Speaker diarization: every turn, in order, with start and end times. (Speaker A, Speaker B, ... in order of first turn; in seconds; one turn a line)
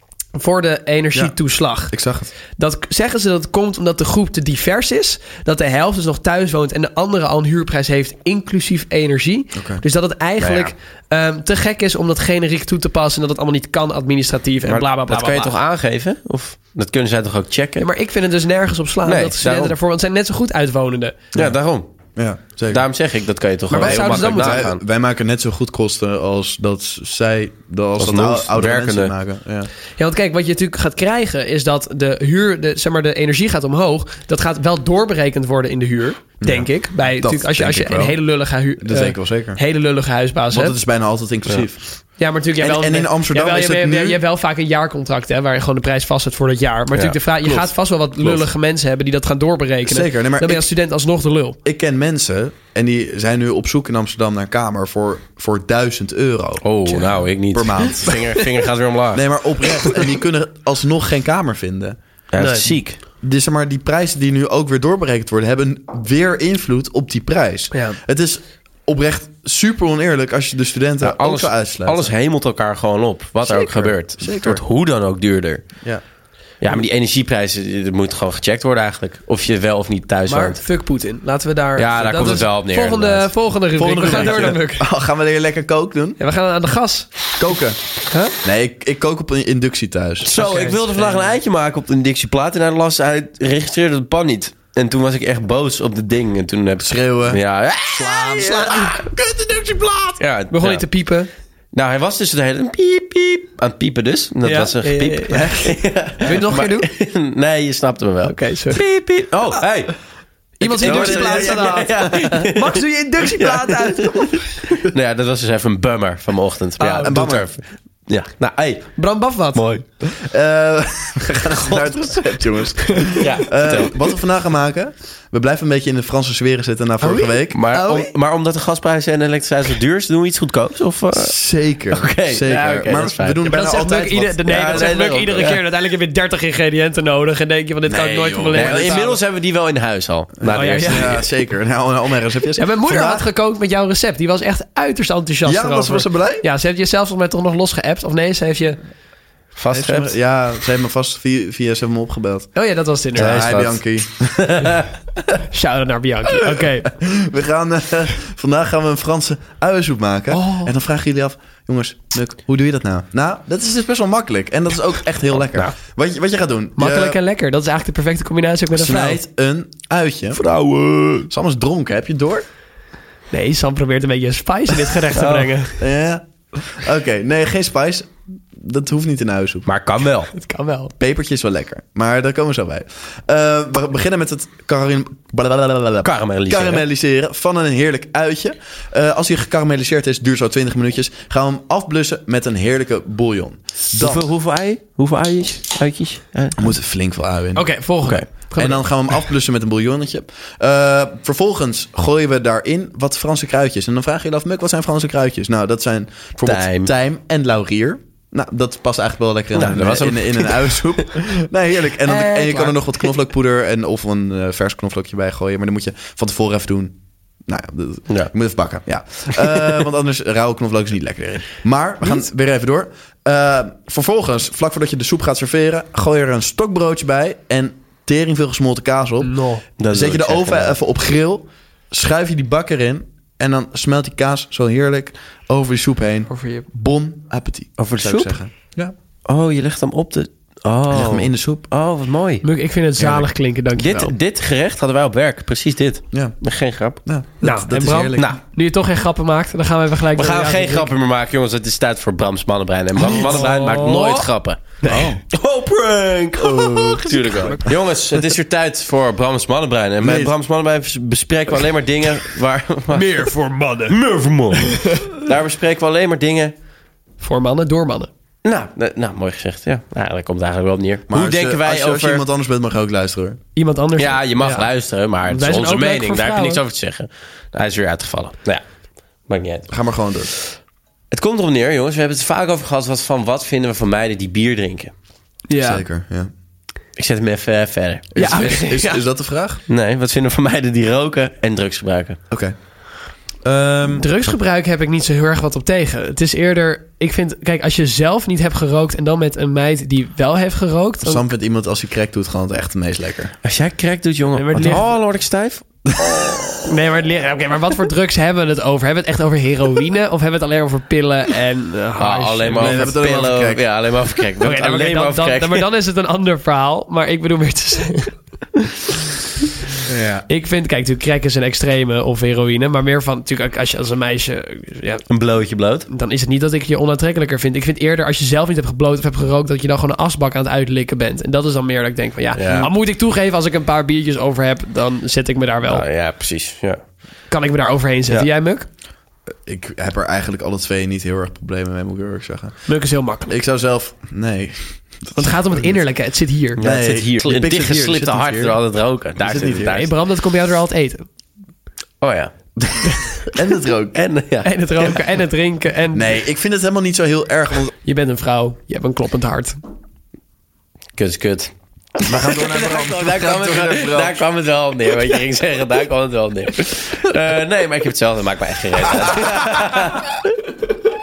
Speaker A: 0.3-1.9
Speaker B: 1.9-2.3
Speaker A: 2.6-15.5
Speaker B: 9.5-9.8
Speaker C: 10.4-10.7
Speaker C: 14.7-17.9
Speaker A: 17.8-21.2
Speaker C: 19.1-19.8
Speaker C: 21.4-21.9
Speaker B: 22.2-22.9
Speaker C: 22.7-24.8
Speaker A: 23.7-24.7
Speaker B: 23.7-29.7
Speaker C: 28.0-29.1
Speaker A: 30.0-40.8
Speaker B: 36.4-38.2
Speaker B: 38.8-39.6
Speaker B: 40.5-41.8
Speaker A: 42.2-51.6
Speaker B: 42.6-44.2
Speaker C: 46.9-47.7
Speaker B: 49.8-50.7
Speaker B: 51.6-56.7
Speaker C: 56.6-59.3
Speaker B: 57.5-58.4
Speaker B: 59.1-62.0
Speaker C: 62.3-63.0
Speaker A: 62.4-62.7
Speaker B: 63.2-72.1
Speaker A: 67.7-68.0
Speaker C: 71.0-75.7
Speaker B: 73.6-74.6
Speaker C: 76.6-80.6
Speaker A: 80.3-84.9
Speaker C: 81.8-83.3
Speaker B: 81.9-82.5
Speaker B: 83.8-86.2
Speaker C: 84.0-84.5
Speaker A: 86.2-87.1
Speaker B: 87.4-87.8
Speaker A: 88.1-88.3
Speaker B: 88.4-90.3
Speaker C: 90.2-99.1
Speaker A: 90.3-91.2
Speaker B: 96.8-100.2
Speaker C: 100.2-100.8
Speaker A: 100.5-101.3
Speaker C: 101.7-110.0
Speaker A: 104.4-106.9
Speaker A: 108.2-108.8
Speaker A: 110.6-114.5
Speaker C: 110.6-119.0
Speaker B: 110.7-112.3
Speaker A: 116.8-117.2
Speaker B: 117.0-117.5
Speaker A: 119.0-119.6
Speaker C: 119.5-119.8
Speaker B: 120.1-127.6
Speaker C: 121.7-122.1
Speaker C: 123.2-124.0
Speaker A: 127.0-128.1
Speaker C: 127.5-131.3
Speaker B: 131.1-135.2
Speaker C: 131.9-133.4
Speaker A: 133.5-139.2
Speaker C: 134.4-135.6
Speaker B: 137.9-139.1
Speaker C: 138.5-141.3
Speaker B: 140.4-143.3
Speaker A: 140.5-141.2
Speaker A: 142.6-148.8
Speaker B: 145.4-146.4
Speaker C: 149.6-150.2
Speaker B: 149.7-152.5
Speaker A: 152.6-153.5
Speaker C: 153.2-154.9
Speaker B: 153.2-154.8
Speaker A: 155.5-156.9
Speaker B: 156.3-167.2
Speaker A: 160.3-160.7
Speaker C: 165.3-165.7
Speaker A: 166.8-169.2
Speaker B: 168.7-170.4
Speaker C: 170.3-171.3
Speaker B: 171.3-172.4
Speaker A: 173.3-175.8
Speaker C: 175.1-175.5
Speaker B: 175.8-179.7
Speaker C: 179.7-180.3
Speaker A: 180.3-180.9
Speaker B: 181.0-194.2
Speaker C: 186.0-186.9
Speaker C: 194.0-196.7
Speaker B: 196.6-197.8
Speaker A: 197.6-198.8
Speaker B: 198.6-238.9
Speaker C: 206.4-206.9
Speaker C: 209.6-210.9
Speaker A: 212.1-213.1
Speaker C: 219.4-219.8
Speaker A: 229.2-229.6
Speaker C: 229.8-230.8
Speaker A: 236.3-236.7
Speaker C: 237.8-238.4
Speaker C: 239.3-242.4
Speaker B: 240.9-241.7
Speaker A: 242.4-244.1
Speaker C: 243.8-247.0
Speaker B: 246.1-246.4
Speaker B: 247.1-248.3
Speaker A: 247.4-250.9
Speaker C: 250.2-254.8
Speaker A: 253.0-254.3
Speaker A: 254.8-255.1
Speaker B: 254.8-255.2
Speaker C: 255.3-263.3
Speaker A: 256.5-257.6
Speaker B: 260.0-260.3
Speaker A: 262.9-264.0
Speaker C: 263.9-266.5
Speaker A: 264.5-265.1
Speaker A: 267.2-268.1
Speaker C: 268.4-272.3
Speaker B: 271.1-273.4
Speaker A: 273.6-274.7
Speaker C: 274.0-278.6
Speaker A: 275.3-276.6
Speaker C: 279.3-279.7
Speaker B: 279.7-280.3
Speaker C: 281.1-284.9
Speaker A: 285.5-285.8
Speaker B: 285.6-286.3
Speaker C: 287.0-288.6
Speaker B: 288.1-289.6
Speaker A: 288.2-289.0
Speaker C: 289.7-292.2
Speaker B: 292.3-292.6
Speaker B: 293.4-294.1
Speaker A: 294.0-301.2
Speaker B: 301.0-303.3
Speaker C: 303.4-305.6
Speaker A: 304.4-304.9
Speaker B: 305.9-306.7
Speaker A: 306.6-312.9
Speaker C: 312.0-315.7
Speaker B: 312.6-313.6
Speaker A: 314.4-318.2
Speaker B: 319.9-320.2
Speaker A: 320.3-325.0
Speaker C: 325.1-325.9
Speaker A: 325.9-335.9
Speaker C: 332.4-332.7
Speaker B: 332.4-332.7
Speaker C: 335.6-336.8
Speaker A: 337.3-338.7
Speaker B: 339.4-342.7
Speaker A: 342.7-343.4
Speaker B: 343.3-345.8
Speaker A: 345.2-346.6
Speaker B: 346.6-348.6
Speaker C: 346.6-349.9
Speaker B: 349.2-349.9
Speaker A: 349.7-351.1
Speaker C: 352.0-352.3
Speaker B: 352.6-354.0
Speaker C: 353.9-355.0
Speaker A: 354.4-356.2
Speaker B: 355.9-357.7
Speaker A: 357.8-359.6
Speaker C: 361.0-370.3
Speaker B: 362.1-364.2
Speaker B: 369.1-369.4